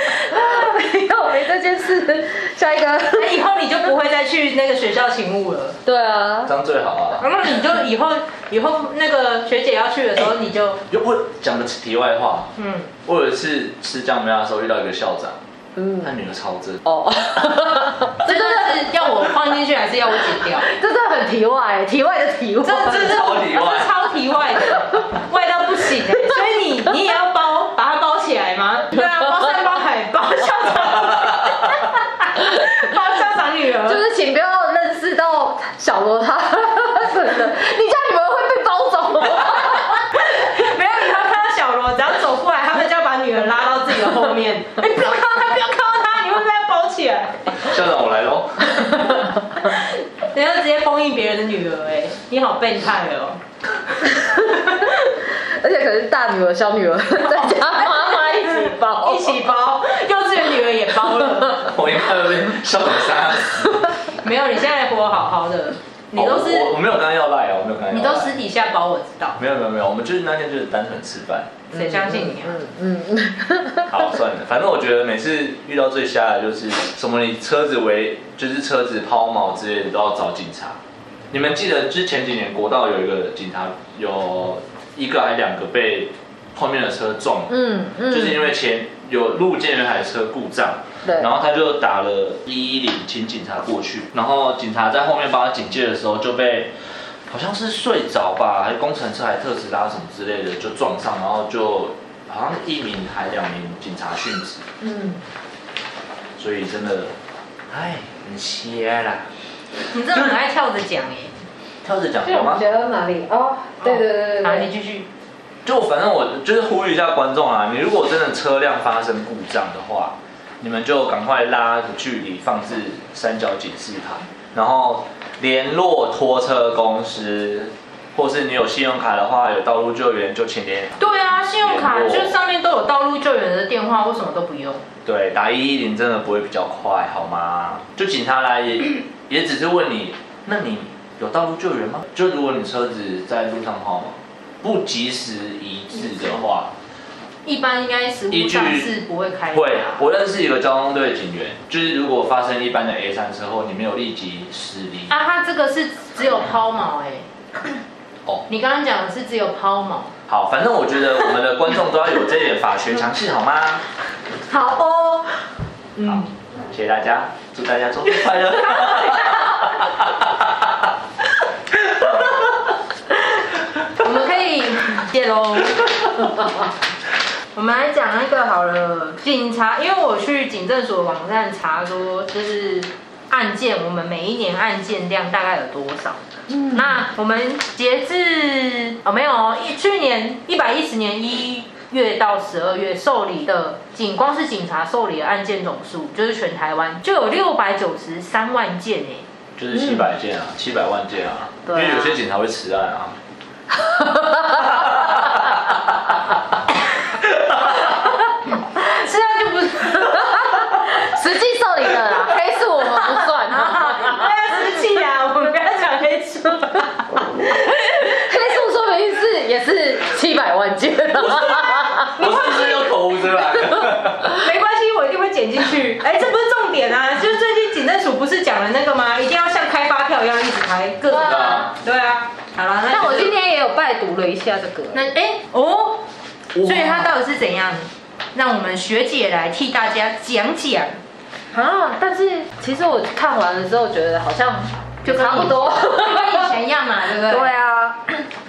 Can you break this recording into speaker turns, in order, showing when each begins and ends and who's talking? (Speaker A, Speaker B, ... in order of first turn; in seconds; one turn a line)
Speaker A: 0.2-3.4
Speaker B: 3.2-5.8
Speaker A: 5.8-6.5
Speaker C: 6.5-7.3
Speaker B: 7.2-10.8
Speaker C: 10.9-12.5
Speaker B: 12.6-12.9
Speaker C: 13.1-15.4
Speaker A: 15.8-16.1
Speaker C: 16.0-16.8
Speaker A: 16.9-19.1
Speaker B: 18.2-20.7
Speaker A: 20.6-23.1
Speaker B: 22.6-34.0
Speaker C: 22.9-23.9
Speaker C: 30.9-31.7
Speaker A: 33.9-40.0
Speaker B: 40.0-47.7
Speaker C: 47.6-49.0
Speaker B: 49.6-53.4
Speaker B: 54.3-54.9
Speaker A: 55.4-59.4
Speaker B: 57.5-61.8
Speaker C: 61.6-63.9
Speaker B: 64.2-66.8
Speaker C: 66.1-68.4
Speaker B: 67.9-69.4
Speaker C: 69.4-71.7
Speaker B: 71.7-72.6
Speaker A: 71.7-73.9
Speaker C: 73.9-80.8
Speaker C: 81.3-87.5
Speaker A: 87.5-88.5
Speaker C: 88.1-96.7
Speaker C: 97.3-104.7
Speaker A: 104.8-105.2
Speaker C: 106.4-107.2
Speaker C: 107.7-109.3
Speaker B: 109.9-111.3
Speaker C: 111.8-112.7
Speaker A: 112.2-114.7
Speaker B: 113.8-115.1
Speaker C: 115.7-132.4
Speaker B: 131.0-134.8
Speaker C: 135.1-146.7
Speaker B: 147.4-150.0
Speaker C: 148.3-148.9
Speaker C: 149.5-155.2
Speaker B: 155.1-157.3
Speaker B: 158.5-160.1
Speaker C: 160.3-163.8
Speaker B: 164.5-165.2
Speaker B: 166.0-166.3
Speaker C: 166.1-170.9
Speaker B: 168.7-169.5
Speaker C: 171.8-172.5
Speaker B: 174.0-176.3
Speaker B: 177.6-199.2
Speaker A: 186.5-187.0
Speaker C: 199.6-203.2
Speaker A: 201.7-202.2
Speaker A: 203.8-204.8
Speaker C: 204.5-206.0
Speaker C: 207.4-207.8
Speaker B: 208.7-210.7
Speaker A: 210.2-214.3
Speaker B: 212.9-218.5
Speaker A: 218.0-222.5
Speaker C: 221.1-224.4
Speaker B: 224.3-233.3
Speaker A: 231.1-231.7
Speaker C: 231.2-231.7
Speaker A: 232.9-235.1
Speaker B: 234.9-236.1
Speaker C: 236.6-237.1
Speaker B: 236.6-241.0
Speaker A: 241.5-246.5
Speaker B: 245.1-247.5
Speaker A: 247.2-248.2